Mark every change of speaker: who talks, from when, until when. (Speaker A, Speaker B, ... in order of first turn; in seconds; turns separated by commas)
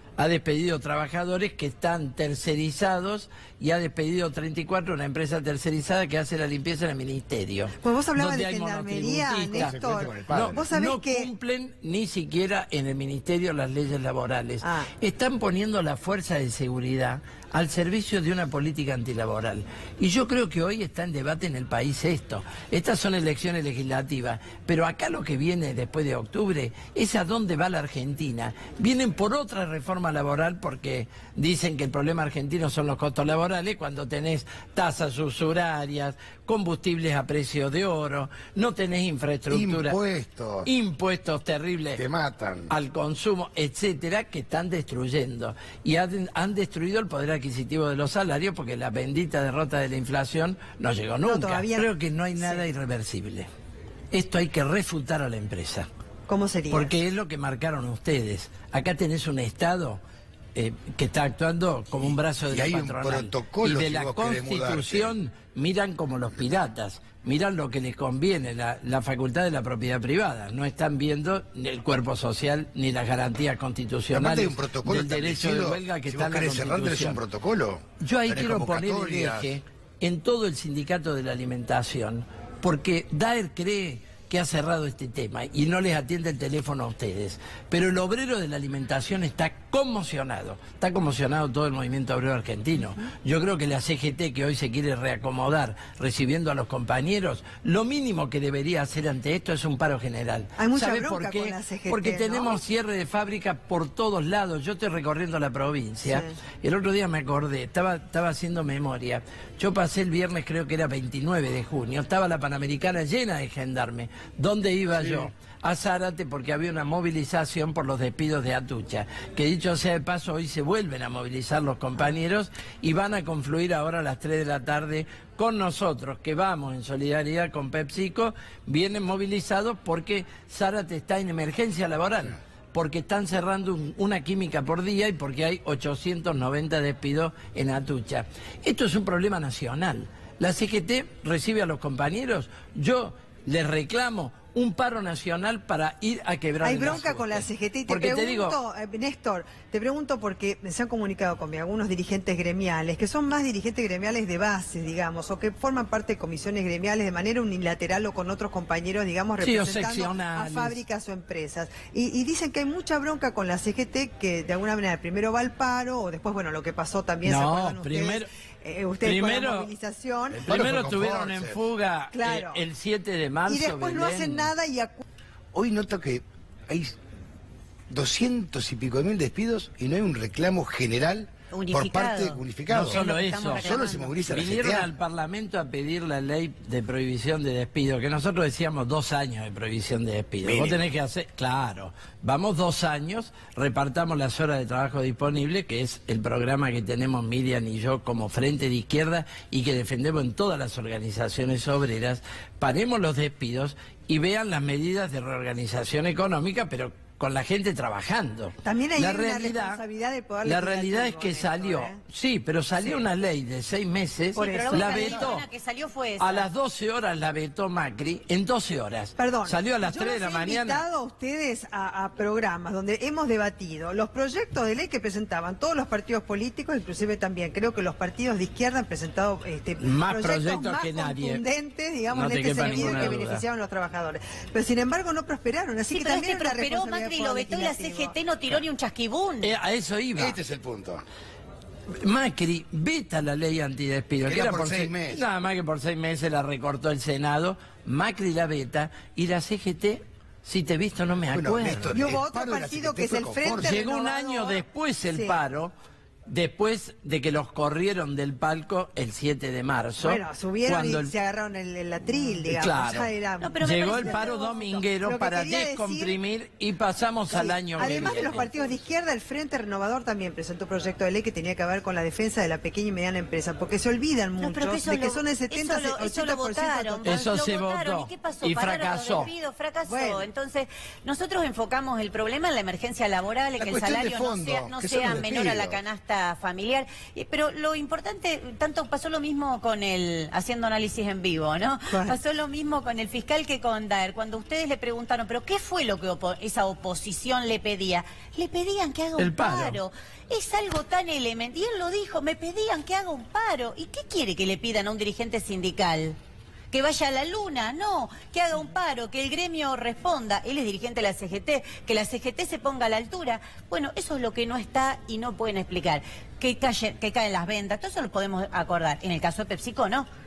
Speaker A: 0.2-40.0, Speaker B: 7.8-11.3, Speaker C: 9.5-10.6, Speaker B: 14.6-14.9, Speaker C: 39.5-40.7, Speaker A: 40.6-42.0, Speaker C: 42.0-42.7, Speaker A: 42.7-53.5, Speaker B: 51.2-52.6, Speaker A: 54.1-55.9, Speaker B: 56.3-57.0, Speaker A: 56.7-60.0, Speaker A: 60.5-77.2, Speaker C: 62.0-65.1, Speaker C: 74.1-79.6, Speaker A: 78.0-148.6, Speaker B: 100.6-102.6, Speaker B: 106.0-106.3, Speaker B: 146.6-170.4, Speaker A: 159.4-160.8, Speaker A: 167.2-168.3, Speaker A: 169.0-169.7, Speaker C: 170.3-171.6, Speaker A: 170.4-174.5, Speaker B: 172.1-172.6, Speaker B: 173.4-175.0, Speaker C: 175.5-176.9, Speaker C: 177.9-184.9, Speaker D: 181.5-184.2, Speaker A: 182.7-183.7, Speaker A: 184.2-209.8, Speaker C: 190.4-190.8, Speaker B: 208.6-212.0, Speaker A: 210.4-215.5, Speaker B: 212.8-213.0, Speaker B: 214.3-215.4, Speaker D: 214.4-216.5, Speaker A: 216.2-220.8, Speaker B: 219.2-238.1, Speaker A: 229.8-231.4, Speaker A: 232.1-233.4, Speaker D: 235.9-239.5, Speaker A: 239.4-240.4, Speaker C: 240.1-241.0, Speaker A: 241.9-252.0, Speaker C: 244.2-245.2, Speaker C: 251.3-253.8, Speaker B: 251.9-255.4, Speaker A: 253.6-255.7, Speaker A: 256.2-261.1, Speaker B: 260.0-264.3, Speaker A: 262.5-268.5, Speaker D: 263.4-264.8, Speaker B: 265.0-266.1, Speaker B: 267.3-277.3, Speaker D: 267.8-268.6, Speaker D: 274.4-306.2, Speaker A: 277.0-279.3, Speaker B: 279.9-280.2, Speaker C: 283.6-285.8, Speaker B: 291.9-292.1, Speaker A: 299.2-299.8, Speaker D: 306.7-320.1